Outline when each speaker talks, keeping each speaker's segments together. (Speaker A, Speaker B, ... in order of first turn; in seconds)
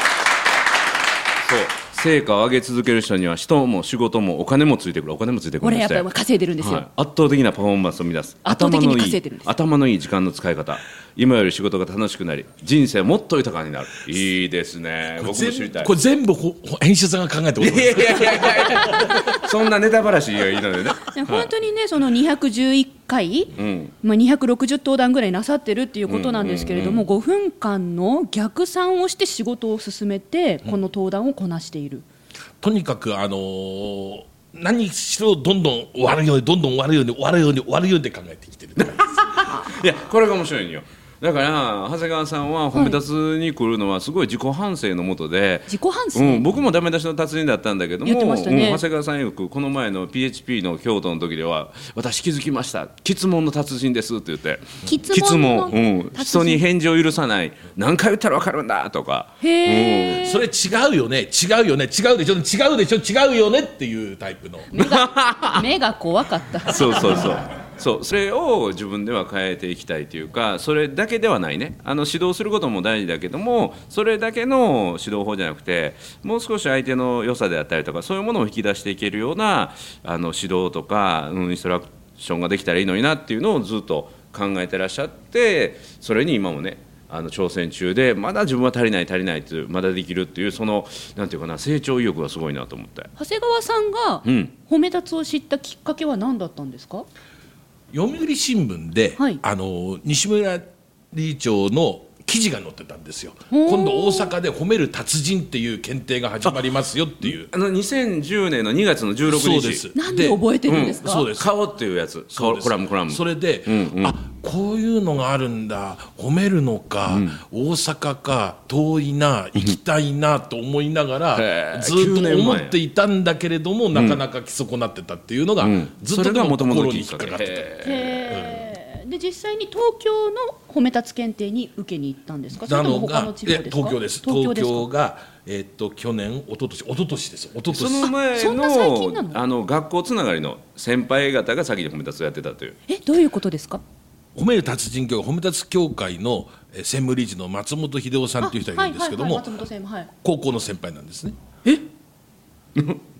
Speaker A: 1.4-6.1, 6.6-15.9, 17.6-21.5, 23.6-23.9, 26.1-27.1, 38.8-60.2, 64.8-65.7, 66.7-93.1, 94.2-94.5, 107.3-109.8, 110.7-114.2, 117.1-117.4, 121.3-122.8, 123.9-124.2, 125.6-128.5, 137.7-142.8
Speaker B: 5.6-6.8, 8.4-9.5, 21.1-23.5, 24.0-32.0, 42.7-43.0, 45.7-46.5, 48.0-48.8, 54.9-56.6, 59.4-60.4, 64.7-67.3, 93.2-97.1, 103.5-104.3, 110.0-111.3, 127.8-134.9, 138.2-139.4, 142.9-143.8, 148.4-150.1
Speaker C: 15.2-19.3, 32.6-39.2, 60.2-64.7, 97.9-107.5, 109.3-111.5, 112.3-127.7, 128.3-128.6, 132.6-138.1, 144.3-149.5, 150.2-151.4